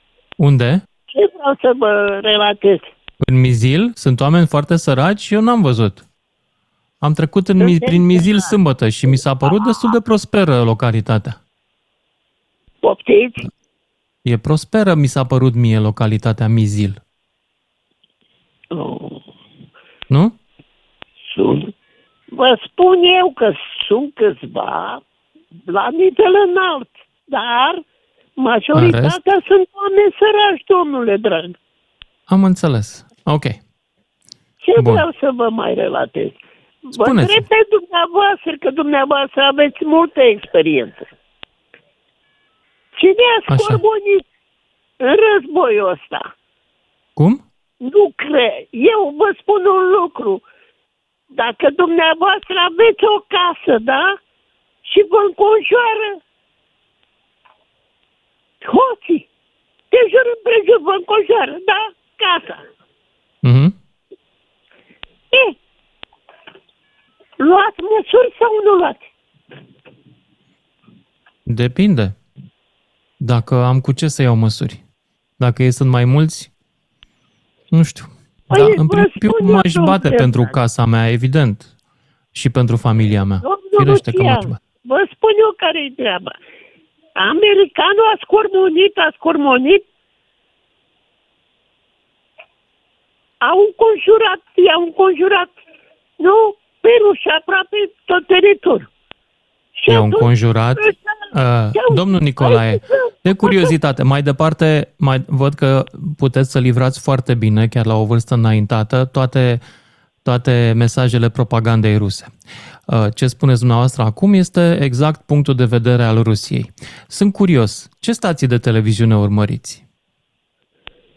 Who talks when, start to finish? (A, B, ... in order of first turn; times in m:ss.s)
0:00.4-0:00.8 A
0:01.1-0:02.9 B
0:03.2-0:06.0 A
0:07.0-0:11.4 A
0:07.6-0:08.6 B
0:09.1-0:10.0 B
0:12.8-0:13.5 B
0:14.2-0:17.0 A
0:18.7-0:19.2 B
0:20.1-0:20.4 A
0:21.3-0:21.7 B
0:22.3-0:25.0 B
0:25.7-0:27.8 B
0:28.4-0:31.6 B
0:28.7-0:29.2 A
0:32.3-0:33.6 A
0:34.6-0:41.1 B
0:37.0-0:37.4 A
0:43.0-0:44.2 B
0:43.5-0:43.8 A
0:45.0-0:46.3 B
0:47.2-0:47.4 A
0:47.8-0:50.4 B
0:51.3-0:54.2 B
0:54.9-0:56.2 B
0:58.6-0:59.3 B
0:59.9-1:02.6 B
1:03.4-1:03.8 A
1:07.4-1:09.1 B
1:11.5-1:12.2 A
1:13.2-1:14.8 A
1:15.4-1:16.5 A
1:17.7-1:21.7 A
1:18.5-1:20.6 B
1:22.3-1:24.6 A
1:23.4-1:26.4 B
1:27.2-1:29.8 B
1:33.4-1:35.5 B
1:36.2-1:38.9 B
1:39.8-1:43.8 B
1:39.9-1:40.8 A
1:41.3-1:49.6 A
1:50.2-1:52.3 A
1:52.9-1:59.8 A